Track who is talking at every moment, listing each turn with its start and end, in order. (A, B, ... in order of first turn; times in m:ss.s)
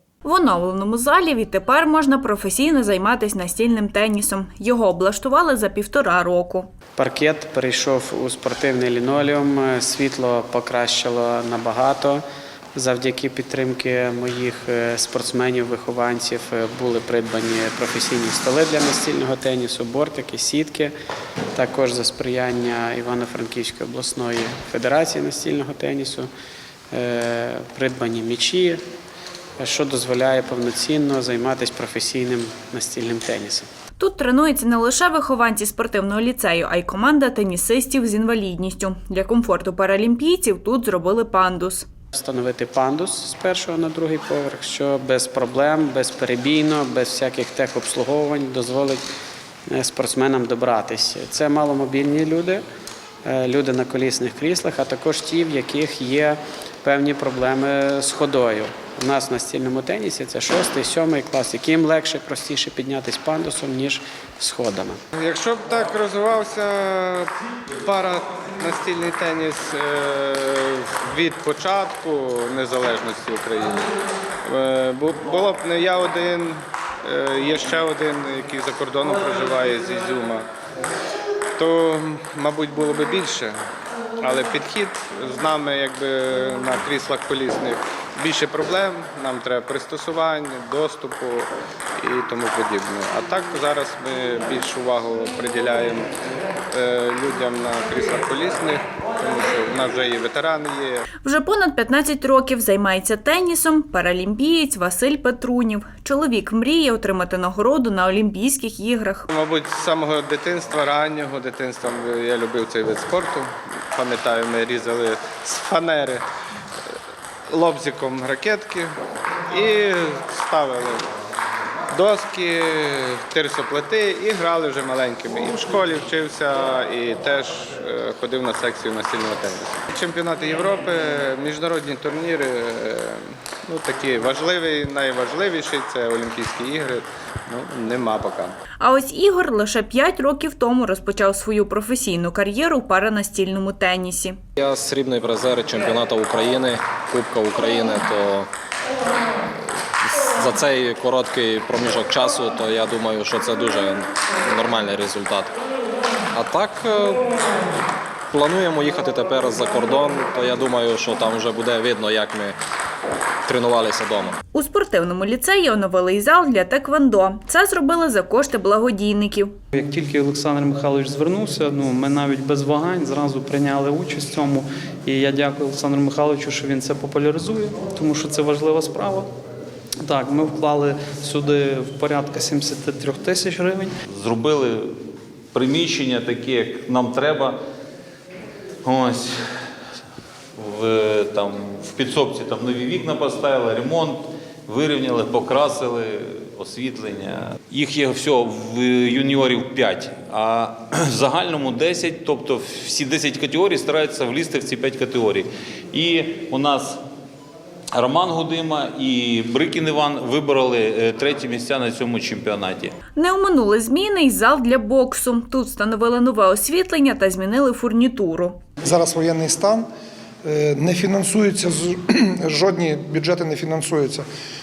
0:00.2-0:06.7 A
0:07.0-0:12.2 B
0:12.8-0:20.9 B
0:21.5-0:26.3 B
0:26.9-0:28.8 B
0:29.6-0:33.7 B
0:34.0-0:41.9 A
0:42.1-0:49.0 B
0:49.7-0:52.6 B
0:53.2-1:05.0 B
1:05.2-1:07.3 C
1:07.8-1:13.9 C
1:14.4-1:20.4 C
1:21.6-1:23.5 C
1:24.2-1:36.1 C
1:36.7-1:41.0 C
1:41.2-1:49.3 A
1:49.3-1:56.2 C
1:57.5-1:59.0 C
1:59.5-2:01.1 C
2:01.9-2:18.6 C
2:18.8-2:24.4 A
2:24.6-2:28.5 D
2:30.0-2:35.5 D
2:36.3-2:37.2 D
2:38.3-2:42.6 D
2:43.5-2:44.4 D
2:44.5-2:49.6 A
2:49.7-2:59.3 E
3:00.0-3:03.9 E
3:04.1-3:05.0 F
3:05.5-3:07.6 F
3:08.8-3:09.4 F
3:10.6-3:27.0 F
3:28.0-3:32.9 F
3:33.2-3:38.6 A
3:38.8-3:39.9 G
3:40.4-3:44.2 G